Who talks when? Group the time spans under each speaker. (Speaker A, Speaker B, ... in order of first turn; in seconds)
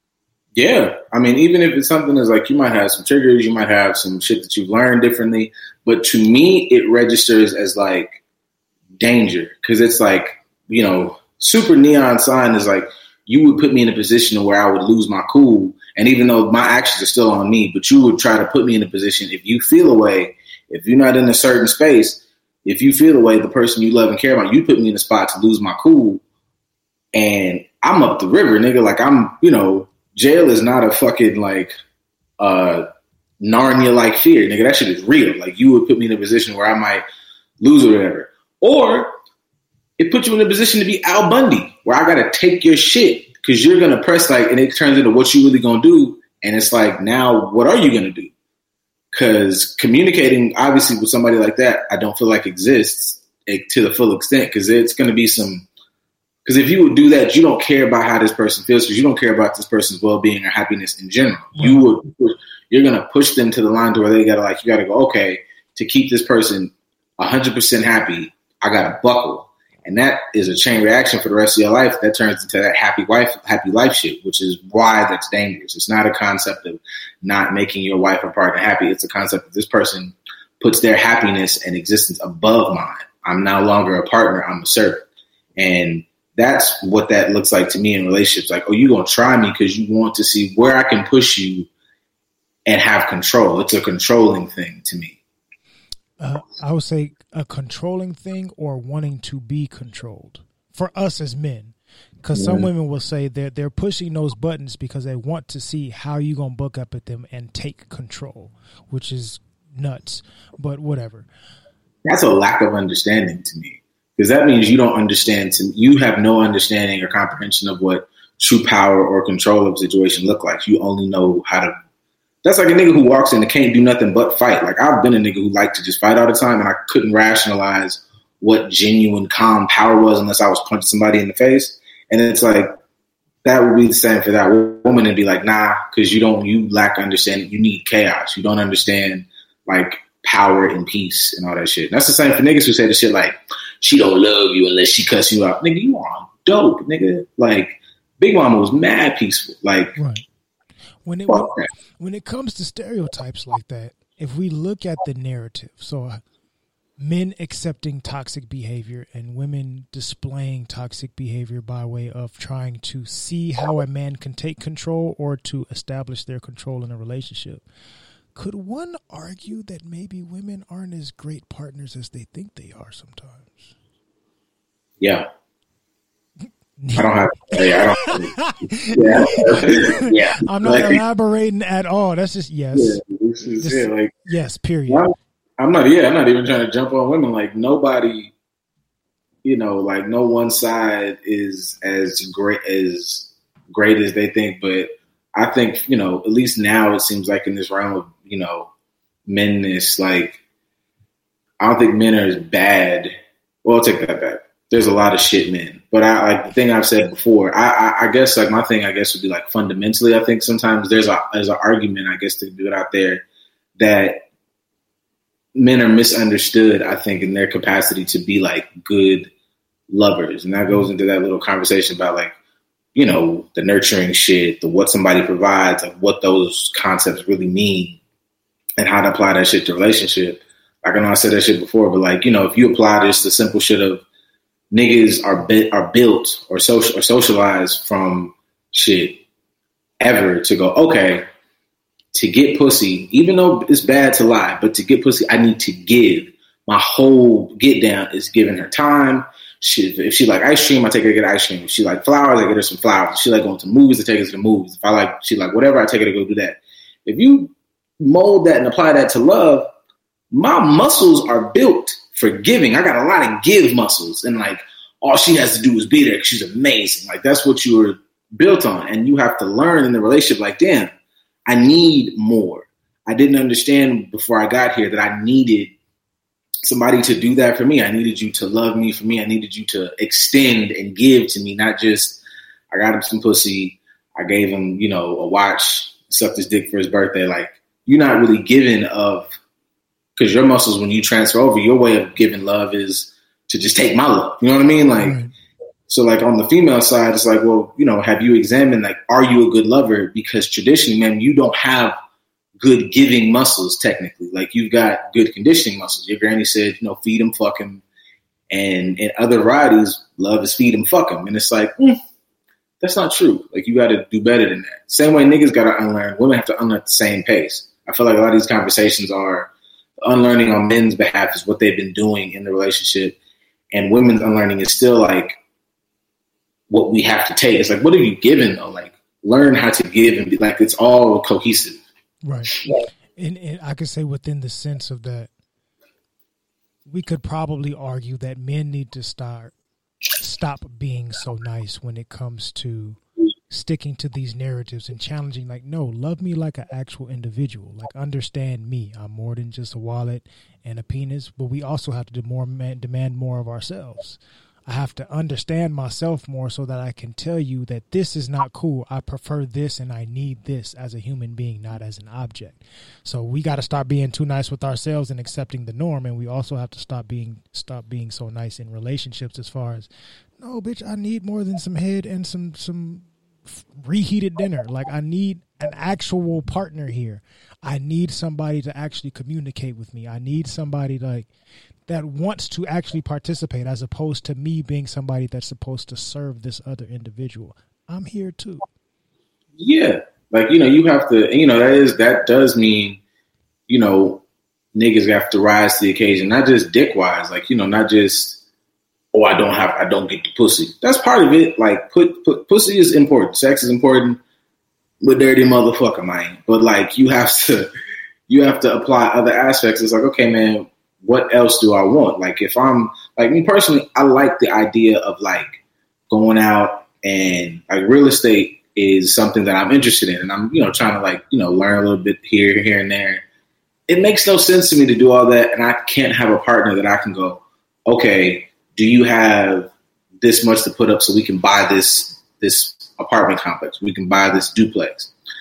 Speaker A: 0.6-8.2, 9.0-26.2, 27.1-31.7, 32.4-32.9, 33.4-37.0, 37.6-39.1, 40.0-48.3, 49.1-55.7, 56.4-85.0, 85.6-91.7, 92.7-95.2, 102.3-102.7, 112.0-121.7, 122.4-132.7, 133.4-149.9, 151.3-151.7, 175.0-175.2, 177.0-178.3, 178.9-181.0, 182.7-184.1, 184.9-188.3, 189.4-198.7, 199.3-200.4, 201.6-203.1, 203.6-213.2, 213.8-214.2, 215.5-219.3, 219.9-222.3, 222.9-228.0, 228.8-234.0, 234.7-239.2, 240.0-241.2, 242.1-259.7, 260.3-270.9, 271.5-275.7, 276.6-282.2, 282.7-289.3, 290.1-295.2, 295.9-302.0, 302.6-307.8, 308.5-312.0, 312.8-319.5, 320.0-323.2, 323.7-325.4, 326.7-331.8, 389.6-393.0, 393.7-394.2, 394.7-398.4, 399.1-404.2, 405.0-407.7, 408.3-415.6, 416.1-423.2, 423.9-429.7, 430.2-435.1
Speaker B: 61.5-61.9, 96.2-111.3, 149.9-150.2, 151.0-156.2, 157.0-167.6, 168.3-173.7, 176.8-183.0, 183.6-185.1, 295.0-295.3, 332.2-335.3, 336.9-339.5, 340.2-381.3, 381.9-388.6